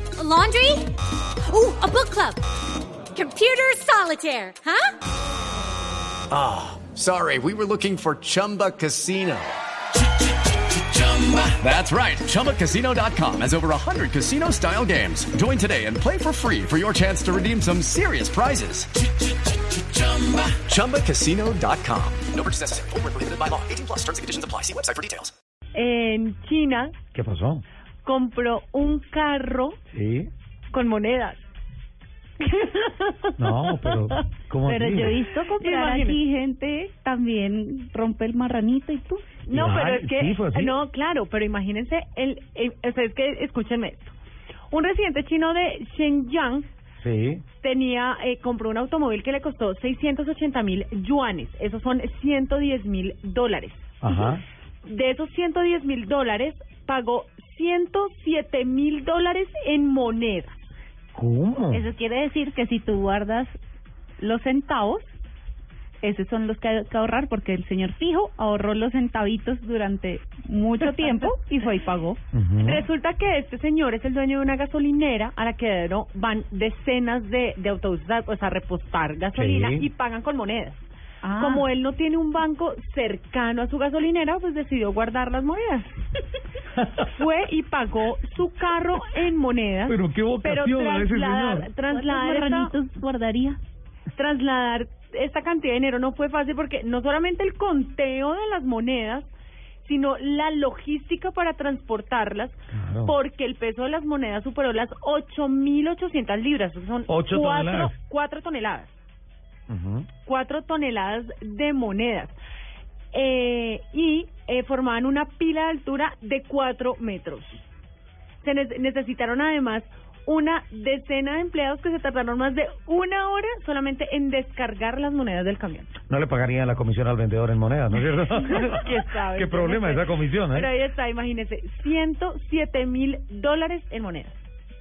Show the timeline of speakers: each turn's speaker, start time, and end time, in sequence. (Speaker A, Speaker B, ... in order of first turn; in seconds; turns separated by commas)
Speaker A: 0.2-0.9, Speaker A: 1.5-2.4, Speaker A: 3.1-4.9, Speaker B: 6.3-9.6, Speaker B: 10.8-18.9, Speaker B: 19.8-25.3, Speaker C: 25.7-26.9, Speaker D: 27.1-27.6, Speaker C: 28.0-29.8, Speaker D: 29.9-30.3, Speaker C: 30.7-31.5, Speaker C: 32.4-34.0, Speaker D: 33.4-35.2, Speaker E: 34.7-39.4, Speaker C: 35.5-36.2, Speaker C: 39.5-44.1, Speaker D: 39.5-40.8, Speaker C: 44.7-46.7, Speaker D: 47.0-47.4, Speaker C: 47.6-54.3, Speaker D: 54.0-54.4, Speaker C: 54.8-60.8, Speaker D: 61.1-61.9, Speaker E: 61.7-63.5, Speaker E: 64.2-65.2, Speaker E: 66.0-72.2, Speaker C: 70.8-71.6, Speaker D: 72.3-72.8, Speaker C: 72.6-80.8, Speaker D: 79.3-79.9, Speaker E: 81.2-81.7, Speaker C: 81.4-86.0, Speaker C: 87.0-92.7, Speaker D: 89.9-91.7, Speaker E: 91.9-93.6, Speaker C: 94.1-99.3, Speaker C: 99.8-109.0, Speaker D: 102.7-103.2, Speaker D: 107.1-108.0, Speaker D: 109.7-110.1, Speaker C: 110.2-112.4, Speaker C: 113.1-117.6, Speaker C: 118.4-126.0, Speaker D: 126.1-130.7, Speaker C: 128.3-134.4